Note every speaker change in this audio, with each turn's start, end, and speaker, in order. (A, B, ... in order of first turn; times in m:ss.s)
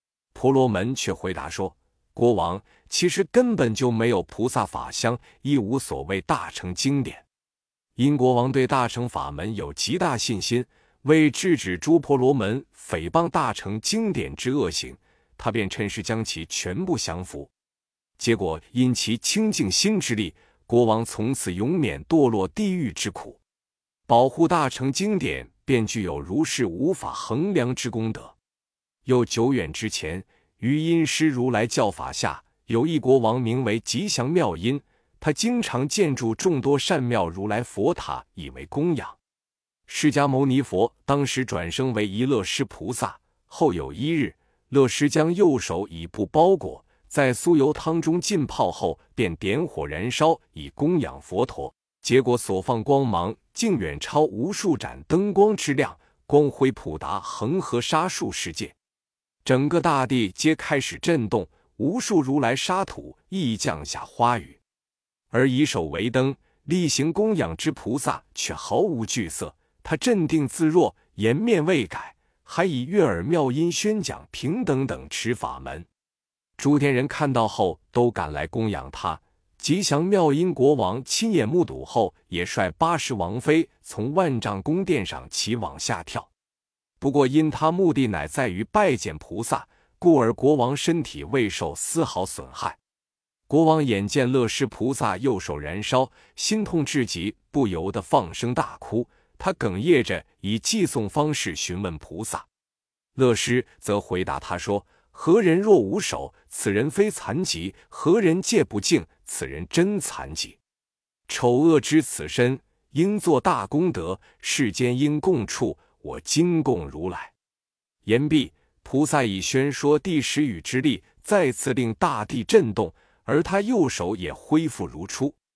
0:00.3-0:07.2 A
0:08.0-0:17.5 A
0:18.2-0:23.4 A
0:24.1-0:28.3 A
0:29.0-0:39.2 A
0:39.9-0:58.7 A
0:59.4-1:04.6 A
1:05.3-1:15.9 A
1:16.6-1:26.3 A
1:27.0-1:32.8 A
1:33.5-1:42.5 A
1:43.2-1:50.6 A
1:51.3-1:57.3 A
1:58.0-2:05.4 A